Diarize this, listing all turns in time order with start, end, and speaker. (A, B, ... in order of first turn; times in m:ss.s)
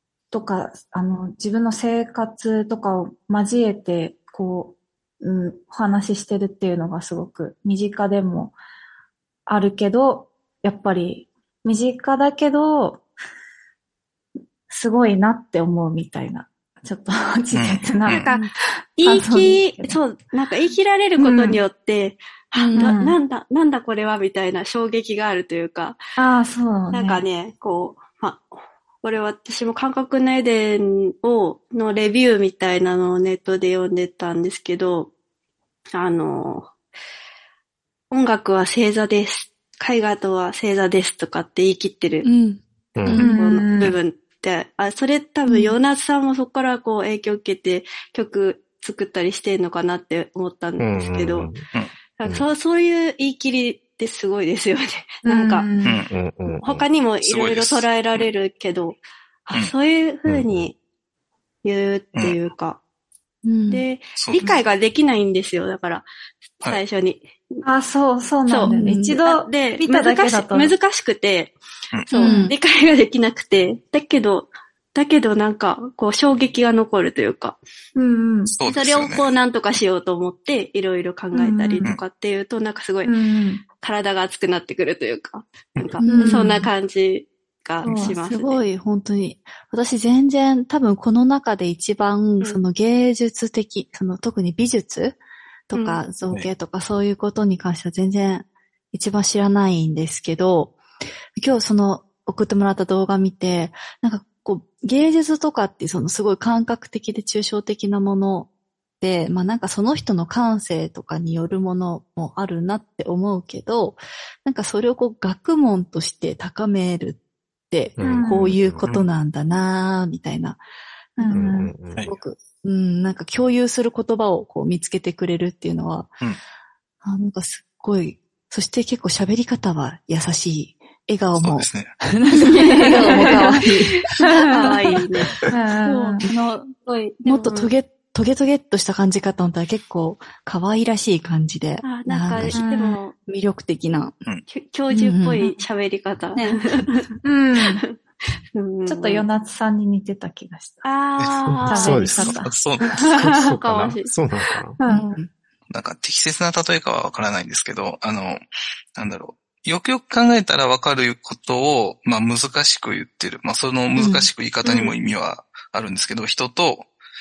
0:00.3-0:08.6 A
0:09.5-0:13.0 A
0:14.7-0:18.4 A
0:17.5-0:18.3 B
0:19.0-0:26.0 C
0:19.0-0:20.0 A
0:21.2-0:21.6 A
0:22.6-0:23.0 D
0:22.8-0:23.2 A
0:26.2-0:27.2 A
0:26.9-0:35.1 C
0:35.9-0:36.7 C
0:38.1-0:42.3 C
0:42.2-0:43.3 D
0:43.0-0:43.3 E
0:43.1-0:51.5 C
0:43.2-0:44.0 A
0:50.8-0:51.6 E
0:52.2-0:55.7 C
0:55.2-0:56.0 A
0:55.8-0:56.1 B
0:56.1-0:56.8 E
0:56.6-1:00.8 C
0:57.2-0:58.2 B
1:00.3-1:00.7 E
1:01.6-1:02.8 C
1:03.4-1:03.8 D
1:03.7-1:06.0 C
1:04.2-1:04.4 B
1:06.6-1:07.6 C
1:07.6-1:10.7 A
1:08.4-1:11.5 C
1:08.6-1:09.2 D
1:12.1-1:17.6 C
1:12.2-1:12.4 A
1:12.2-1:12.6 D
1:18.0-1:18.5 A
1:18.5-1:19.3 B
1:18.6-1:23.1 C
1:21.3-1:21.9 A
1:23.0-1:23.6 A
1:23.8-1:28.6 C
1:26.0-1:26.5 D
1:26.1-1:26.7 A
1:27.8-1:28.2 A
1:28.2-1:35.2 D
1:35.7-1:40.8 D
1:35.7-1:36.0 C
1:41.4-1:48.5 D
1:49.0-2:00.6 D
1:58.0-1:58.9 E
1:58.0-1:58.5 A
2:01.2-2:01.7 A
2:01.3-2:02.0 E
2:02.0-2:06.2 D
2:07.0-2:16.7 D
2:11.4-2:11.9 B
2:12.6-2:13.7 C
2:12.8-2:13.6 A
2:14.2-2:15.3 C
2:14.3-2:14.6 A
2:15.5-2:16.2 A
2:16.8-2:17.7 C
2:17.2-2:22.6 D
2:21.8-2:23.1 C
2:22.6-2:23.0 A
2:23.1-2:24.1 D
2:24.5-2:27.1 C
2:24.9-2:25.5 D
2:26.4-2:27.0 D
2:27.2-2:27.8 A
2:28.5-2:29.2 C
2:28.8-2:30.8 A
2:30.8-2:32.3 C
2:31.5-2:32.4 E
2:31.7-2:32.5 A
2:32.4-2:32.9 B
2:32.9-2:34.8 E
2:33.0-2:34.1 C
2:34.8-2:35.1 A
2:34.8-2:35.3 D
2:35.7-2:38.4 B
2:39.0-2:46.9 B
2:44.0-2:44.3 D
2:44.6-2:44.9 C